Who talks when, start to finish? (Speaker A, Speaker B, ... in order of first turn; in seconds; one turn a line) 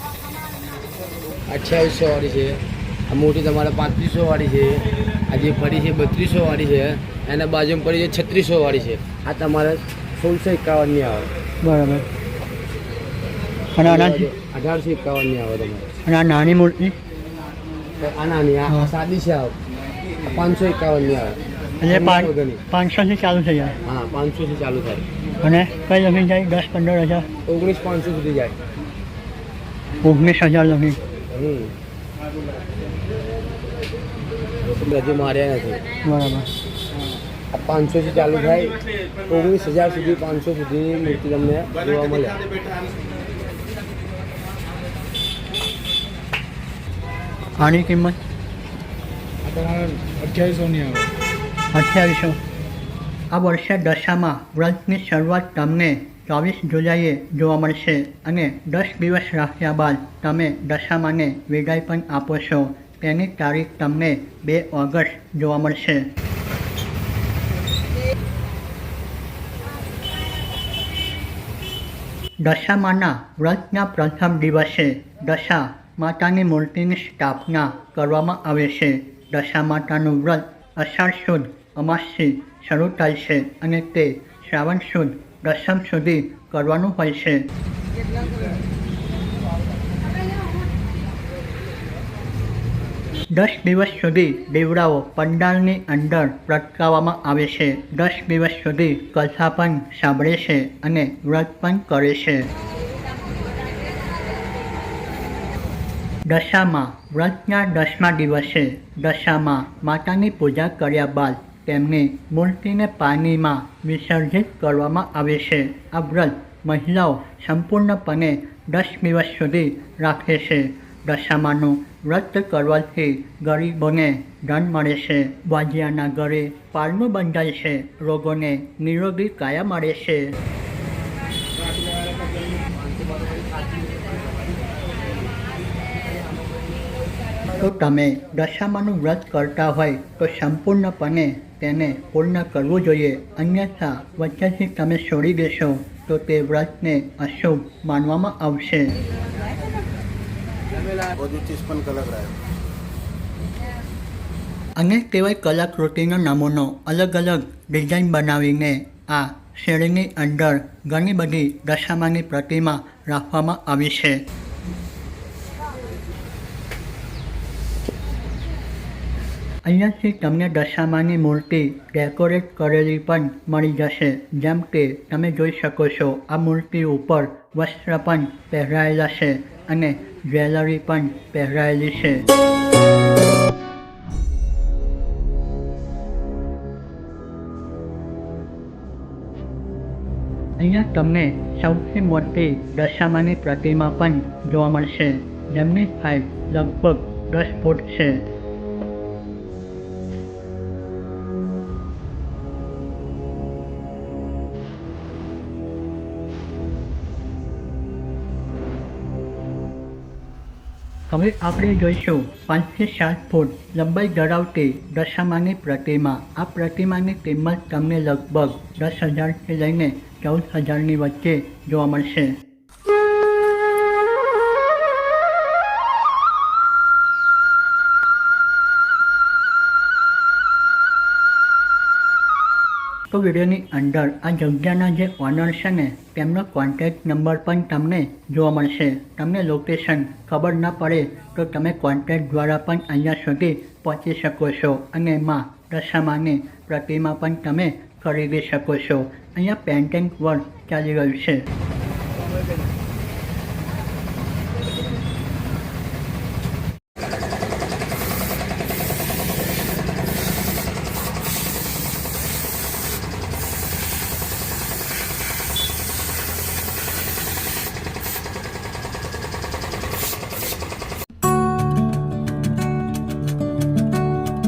Speaker A: 1.5-11.3
Speaker B: 11.6-12.1
Speaker B: 13.8-14.3
Speaker A: 13.8-15.9
Speaker B: 16.1-17.0
Speaker A: 18.0-19.6
Speaker B: 18.7-18.9
Speaker A: 20.2-22.6
Speaker B: 21.8-23.8
Speaker A: 23.8-25.1
Speaker B: 25.4-27.3
Speaker A: 27.5-28.6
Speaker B: 30.0-31.0
Speaker A: 31.3-31.7
Speaker A: 34.6-35.8
Speaker B: 36.0-36.5
Speaker A: 37.5-42.4
Speaker B: 47.6-48.2
Speaker C: 49.6-51.1
Speaker B: 51.7-52.4
Speaker B: 53.3-66.1
Speaker B: 72.4-87.4
Speaker B: 93.3-102.5
Speaker B: 106.3-130.3
Speaker B: 137.6-149.0
Speaker C: 151.5-152.2
Speaker B: 154.8-164.2
Speaker B: 169.7-182.2
Speaker B: 190.6-198.3
Speaker B: 211.1-222.4
Speaker B: 233.1-251.4